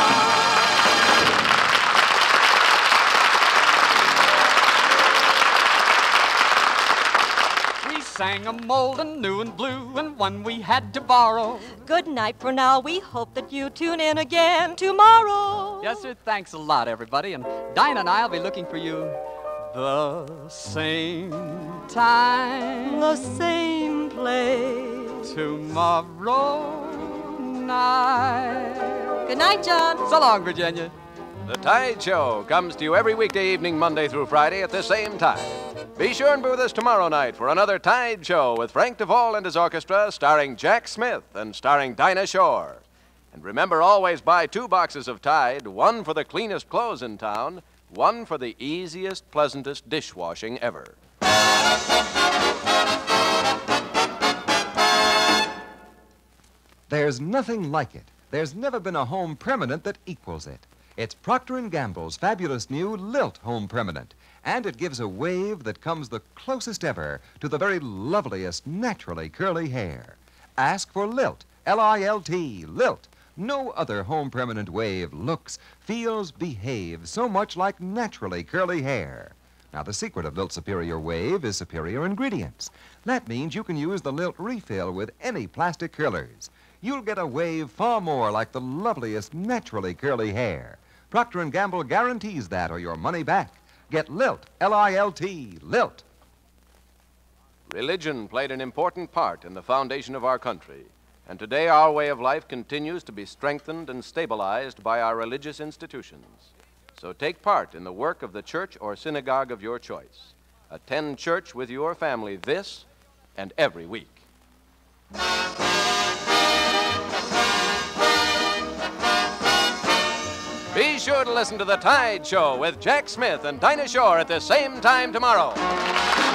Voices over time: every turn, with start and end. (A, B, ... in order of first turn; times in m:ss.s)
0:07.8-0:11.8 A
0:11.8-0:16.1 B
0:15.8-0:23.4 A
0:22.9-0:25.3 B
0:25.2-0:29.3 A
0:29.2-0:30.1 B
0:30.0-0:30.9 A
0:31.4-0:51.0 C
0:56.9-1:36.0 D
1:37.7-1:52.8 C
1:53.4-1:54.2 C
2:00.7-2:05.7 C